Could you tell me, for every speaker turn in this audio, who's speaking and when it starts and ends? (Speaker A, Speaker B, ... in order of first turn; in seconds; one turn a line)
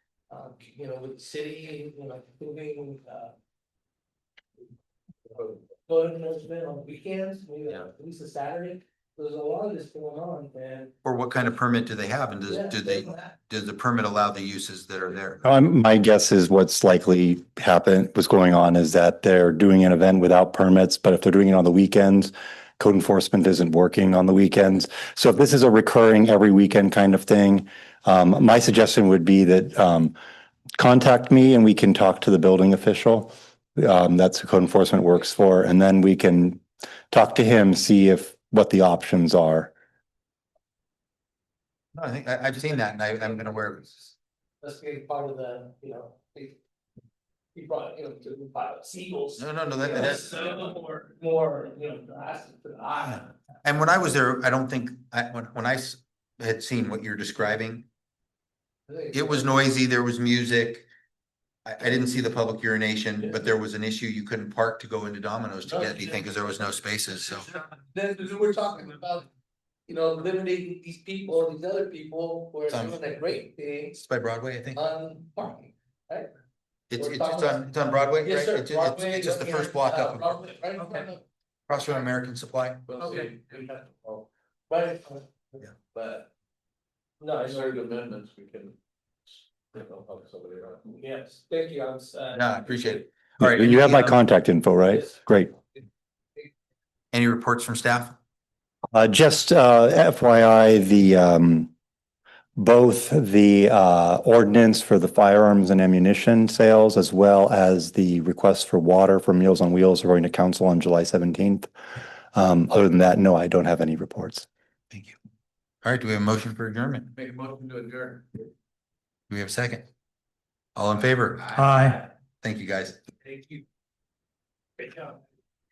Speaker A: 0.3-3.3
Speaker A: 5.9-10.9
Speaker B: 11.1-15.4
Speaker A: 12.5-13.4
Speaker C: 15.4-30.1
Speaker C: 30.8-39.7
Speaker B: 42.0-43.8
Speaker A: 42.5-46.6
Speaker A: 47.5-53.3
Speaker B: 49.4-50.3
Speaker B: 53.2-57.9
Speaker A: 58.9-59.6
Speaker B: 59.1-60.9
Speaker B: 61.7-67.5
Speaker A: 63.2-63.5
Speaker A: 65.7-69.3
Speaker A: 69.9-74.0
Speaker B: 72.7-73.0
Speaker B: 74.0-74.8
Speaker A: 74.7-76.3
Speaker B: 76.9-80.5
Speaker A: 77.0-81.2
Speaker B: 81.7-83.0
Speaker D: 82.9-83.3
Speaker A: 82.9-84.1
Speaker A: 84.7-86.3
Speaker A: 87.2-87.8
Speaker D: 87.5-88.8
Speaker D: 89.7-90.8
Speaker A: 91.0-93.0
Speaker B: 92.3-94.2
Speaker C: 93.4-95.5
Speaker A: 94.9-95.2
Speaker B: 97.1-98.2
Speaker C: 98.9-101.7
Speaker C: 102.6-111.7
Speaker C: 112.3-114.5
Speaker B: 114.9-115.2
Speaker B: 115.8-117.1
Speaker D: 117.2-118.4
Speaker B: 119.3-119.9
Speaker B: 120.8-121.6
Speaker C: 121.6-122.0
Speaker B: 122.4-123.0
Speaker A: 123.2-123.6
Speaker A: 124.8-125.2